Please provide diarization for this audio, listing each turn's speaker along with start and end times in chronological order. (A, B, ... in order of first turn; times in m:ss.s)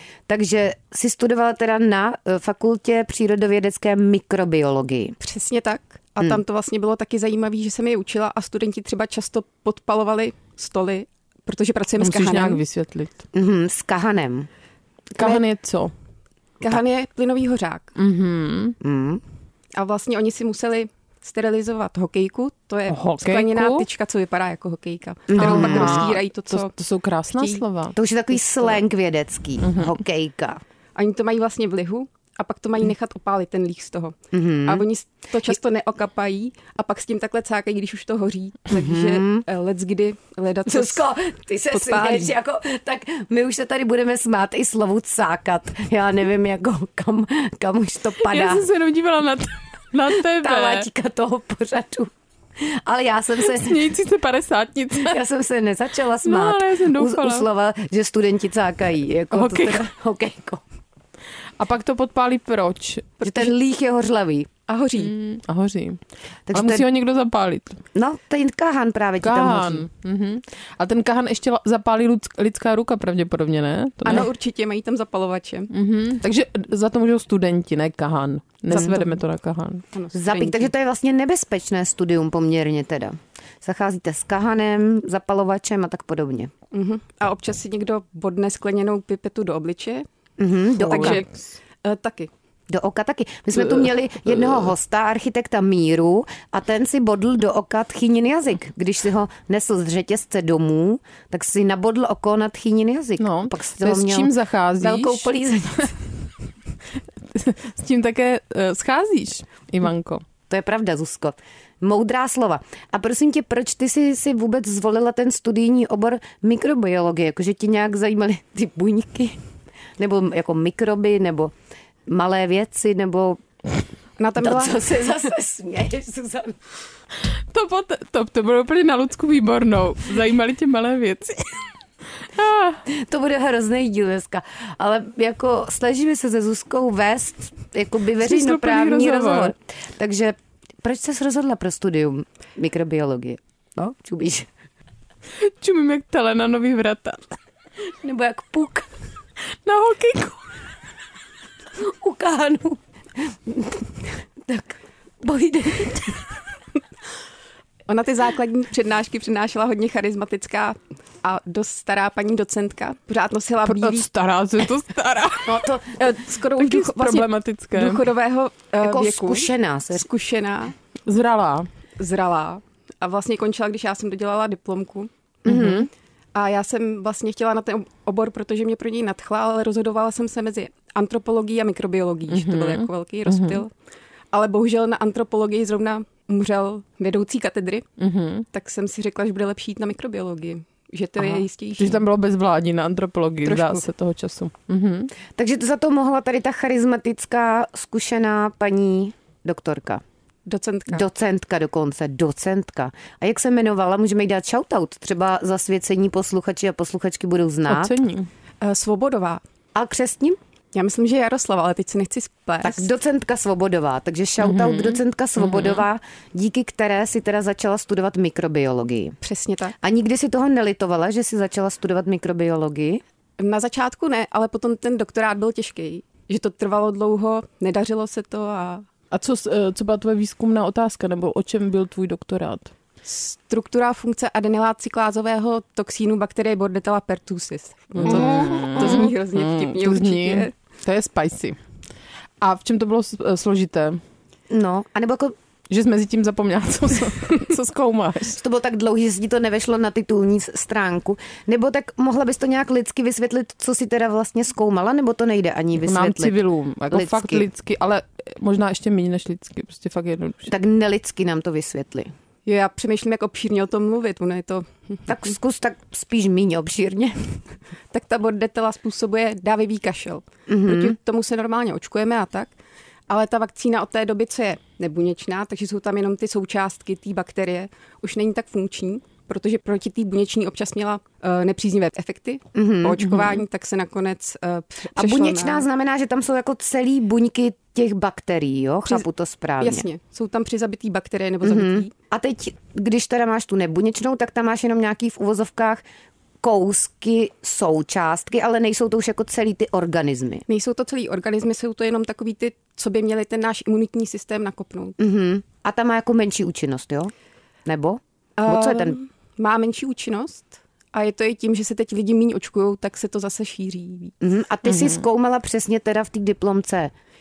0:00.3-0:05.2 A
0:05.2-0:12.6 B
0:12.0-0:13.2 C
0:13.3-0:14.5 A
0:15.2-0:15.9 C
0:16.6-0:17.9 B
0:17.9-0:18.8 C
0:18.8-0:19.2 A
0:19.7-0:26.7 B
0:22.9-0:23.8 C
0:25.3-0:26.1 A
0:25.4-0:27.9 C
0:27.4-0:27.6 B
0:27.9-0:30.6 A
0:28.4-0:28.8 B
0:29.6-0:30.0 C
0:31.0-0:41.0 B
0:34.3-0:34.8 A
0:38.7-0:39.4 A
0:40.7-0:48.6 A
0:41.7-0:42.3 B
0:48.2-0:50.9 C
0:50.2-0:53.9 A
0:53.4-0:55.2 C
0:55.0-1:00.6 A
0:56.2-0:57.5 C
0:59.3-0:59.8 C
1:01.6-1:03.2 C
1:03.2-1:04.5 A
1:04.7-1:05.1 B
1:05.0-1:07.8 C
1:06.5-1:06.8 A
1:07.9-1:09.8 A
1:09.2-1:14.3 C
1:14.0-1:15.7 B
1:15.7-1:19.8 C
1:18.7-1:19.0 A
1:19.9-1:20.7 B
1:20.1-1:26.5 A
1:26.7-1:30.1 B
1:30.4-1:31.2 A
1:30.8-1:31.3 B
1:30.8-1:31.3 C
1:31.8-1:32.3 B
1:32.7-1:45.9 A
1:43.2-1:45.3 C
1:47.2-1:50.2 C
1:50.5-1:59.4 A
2:00.0-2:01.5 A
2:02.1-2:03.4 A
2:04.2-2:04.9 B
2:04.4-2:06.6 A
2:07.2-2:12.8 C
2:12.9-2:24.5 A
2:18.2-2:19.5 C
2:25.4-2:27.4 C
2:28.0-2:28.9 A
2:29.6-2:30.5 C
2:31.8-2:36.2 A
2:37.9-2:44.1 B
2:43.6-2:45.7 C
2:45.4-2:46.0 A
2:46.0-2:50.7 B
2:46.5-2:48.0 C
2:48.8-2:50.0 A
2:51.0-2:51.7 C
2:52.0-2:55.1 B
2:55.4-2:55.9 A
2:55.4-2:55.9 C
2:56.3-3:03.7 B
3:02.3-3:03.6 C
3:04.3-3:07.8 B
3:08.0-3:08.5 C
3:08.5-3:12.0 B
3:11.2-3:15.1 C
3:13.4-3:13.8 B
3:15.4-3:20.0 A
3:20.4-3:21.0 B
3:20.9-3:27.9 A
3:27.7-3:28.3 C
3:28.6-3:29.4 B
3:29.7-3:30.4 A
3:30.7-3:32.9 B
3:32.6-3:39.2 A
3:34.4-3:35.8 C
3:39.2-3:39.7 B
3:39.8-3:43.0 A
3:43.4-3:48.9 B
3:49.1-3:52.7 C
3:53.0-4:00.5 B
3:58.0-4:01.6 C
3:58.0-3:59.1 A
4:02.4-4:04.0 C
4:04.5-4:05.3 A
4:05.7-4:08.4 C
4:08.3-4:16.4 A
4:15.8-4:20.5 C
4:16.9-4:17.5 A
4:20.5-4:22.1 A
4:22.4-4:25.2 B
4:25.1-4:27.4 A
4:27.9-4:32.5 B
4:30.5-4:30.9 A
4:33.1-4:45.6 B
4:42.5-4:43.3 A
4:45.0-4:49.8 A
4:49.6-4:51.9 B
4:51.4-4:55.8 A
4:56.4-5:00.4 A
5:00.5-5:05.0 B
5:05.0-5:07.1 A
5:07.6-5:09.0 A
5:08.4-5:14.1 B
5:14.2-5:16.9 A